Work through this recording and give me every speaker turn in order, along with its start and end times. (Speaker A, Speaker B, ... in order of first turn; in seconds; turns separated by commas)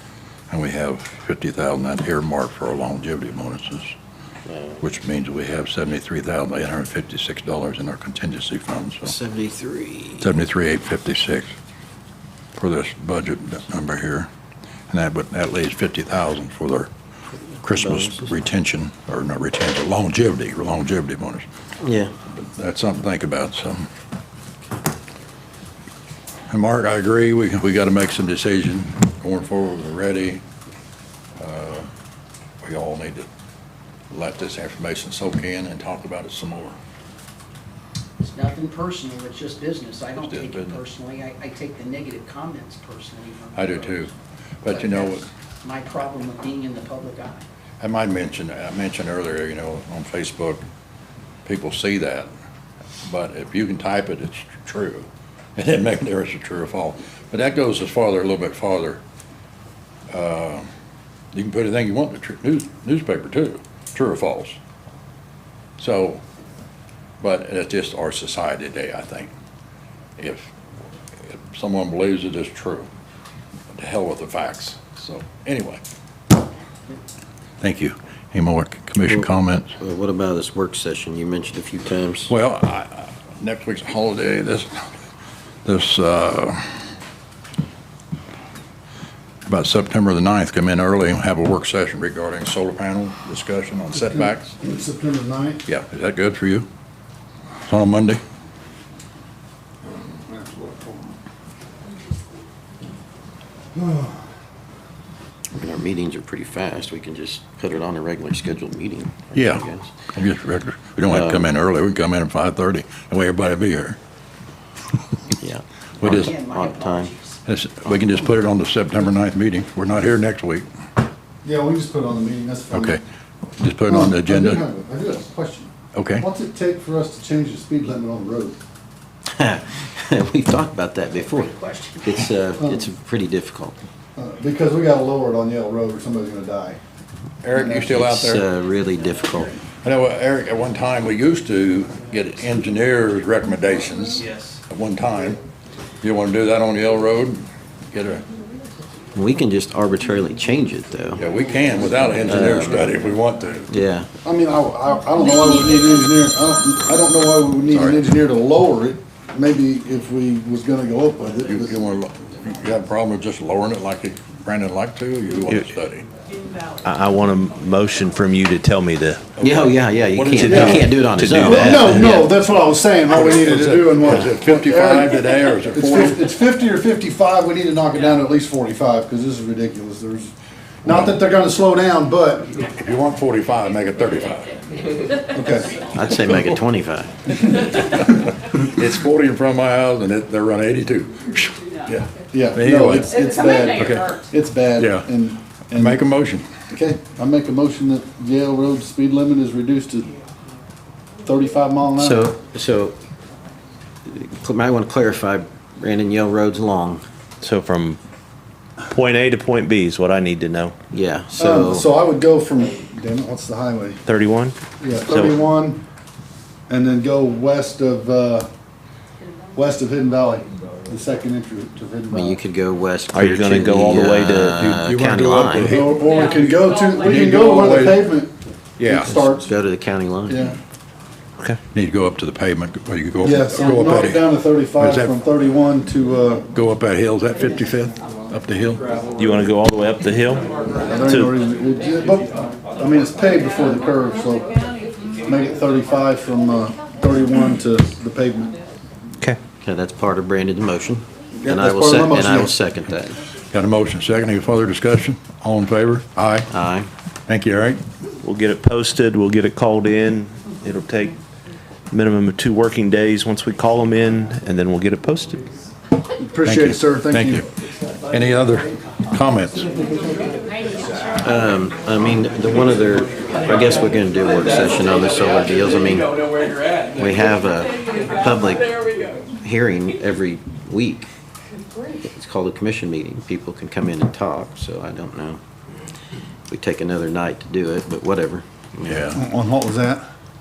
Speaker A: 0.5-3.9, Speaker B: 4.5-4.8, Speaker A: 4.8-9.1, Speaker B: 9.0-10.3, Speaker A: 10.2-11.5, Speaker A: 12.6-14.3, Speaker A: 14.9-16.9, Speaker A: 17.6-21.4, Speaker B: 17.7-18.3, Speaker B: 21.8-22.1, Speaker A: 22.3-23.9, Speaker A: 26.5-30.4, Speaker A: 31.4-31.9, Speaker A: 32.6-33.3, Speaker A: 34.1-36.8, Speaker C: 38.2-44.1, Speaker A: 40.2-40.8, Speaker A: 43.5-44.1, Speaker A: 44.6-45.3, Speaker C: 44.6-47.4, Speaker A: 47.8-50.6, Speaker A: 51.4-52.3, Speaker A: 53.0-59.0, Speaker A: 60.1-60.6, Speaker A: 61.3-64.6, Speaker A: 65.8-66.2, Speaker A: 67.2-69.3, Speaker A: 70.2-70.5, Speaker A: 71.2-72.9, Speaker A: 73.7-75.8, Speaker A: 77.6-79.7, Speaker B: 79.0-82.3, Speaker A: 82.3-84.8, Speaker A: 85.6-86.8, Speaker A: 89.5-94.5, Speaker D: 94.0-95.6, Speaker A: 95.7-96.7, Speaker A: 97.7-98.2, Speaker D: 100.2-101.1, Speaker D: 103.7-104.2, Speaker B: 105.5-109.9, Speaker A: 109.3-114.0, Speaker B: 111.1-111.5, Speaker B: 115.4-117.1, Speaker A: 116.0-116.3, Speaker C: 116.1-118.2, Speaker A: 117.5-120.7, Speaker D: 121.4-123.0, Speaker A: 122.7-123.0, Speaker A: 123.6-124.6, Speaker D: 123.9-128.6, Speaker A: 125.9-126.3, Speaker B: 129.4-133.8, Speaker C: 131.1-132.3, Speaker D: 132.6-132.9, Speaker D: 134.2-136.8, Speaker A: 137.4-138.4, Speaker D: 137.5-137.9, Speaker B: 137.9-139.5, Speaker A: 139.8-145.4, Speaker A: 146.0-148.2, Speaker B: 149.1-151.2, Speaker A: 151.2-153.7, Speaker B: 152.2-152.9, Speaker B: 153.7-154.1, Speaker D: 154.2-161.7, Speaker A: 157.7-158.0, Speaker A: 161.4-166.1, Speaker E: 166.8-169.4, Speaker A: 169.3-171.0, Speaker B: 169.4-172.3, Speaker E: 170.3-172.2, Speaker D: 170.4-170.8, Speaker D: 171.4-180.3, Speaker A: 173.1-176.3, Speaker D: 180.8-182.5, Speaker A: 182.7-184.6, Speaker D: 185.3-185.8, Speaker B: 185.9-187.1, Speaker A: 186.2-186.5, Speaker A: 187.4-194.2, Speaker D: 192.3-196.1, Speaker A: 194.8-195.1, Speaker A: 195.7-196.5, Speaker D: 196.7-200.1, Speaker D: 201.2-202.3, Speaker B: 201.9-203.0, Speaker B: 204.0-207.0, Speaker E: 207.4-208.0, Speaker E: 208.9-210.7, Speaker B: 210.9-211.9, Speaker D: 211.4-214.0, Speaker E: 214.1-214.5, Speaker D: 214.8-215.8, Speaker E: 215.1-215.3, Speaker D: 216.7-218.5, Speaker D: 219.5-222.4, Speaker B: 222.1-225.7, Speaker E: 223.1-224.9, Speaker A: 224.6-226.4, Speaker D: 225.6-228.3, Speaker A: 227.0-228.0, Speaker A: 228.8-229.1, Speaker D: 228.8-229.5, Speaker B: 229.0-230.5, Speaker D: 230.3-230.6, Speaker A: 231.7-234.2, Speaker D: 233.2-236.4, Speaker A: 234.8-235.1, Speaker A: 236.5-238.8, Speaker E: 239.2-240.5, Speaker D: 240.7-244.5, Speaker E: 241.0-241.3, Speaker D: 245.2-248.6, Speaker B: 249.6-253.2, Speaker D: 251.4-252.5, Speaker A: 253.5-256.5, Speaker B: 256.5-256.9, Speaker A: 257.3-257.8, Speaker E: 258.2-261.2, Speaker E: 261.9-265.4, Speaker D: 266.2-267.4, Speaker A: 266.4-267.5, Speaker A: 268.1-269.7, Speaker B: 271.2-276.2, Speaker B: 276.9-278.7, Speaker B: 279.4-281.1, Speaker B: 281.9-285.4, Speaker B: 286.5-289.1, Speaker A: 288.9-289.2, Speaker D: 289.1-290.0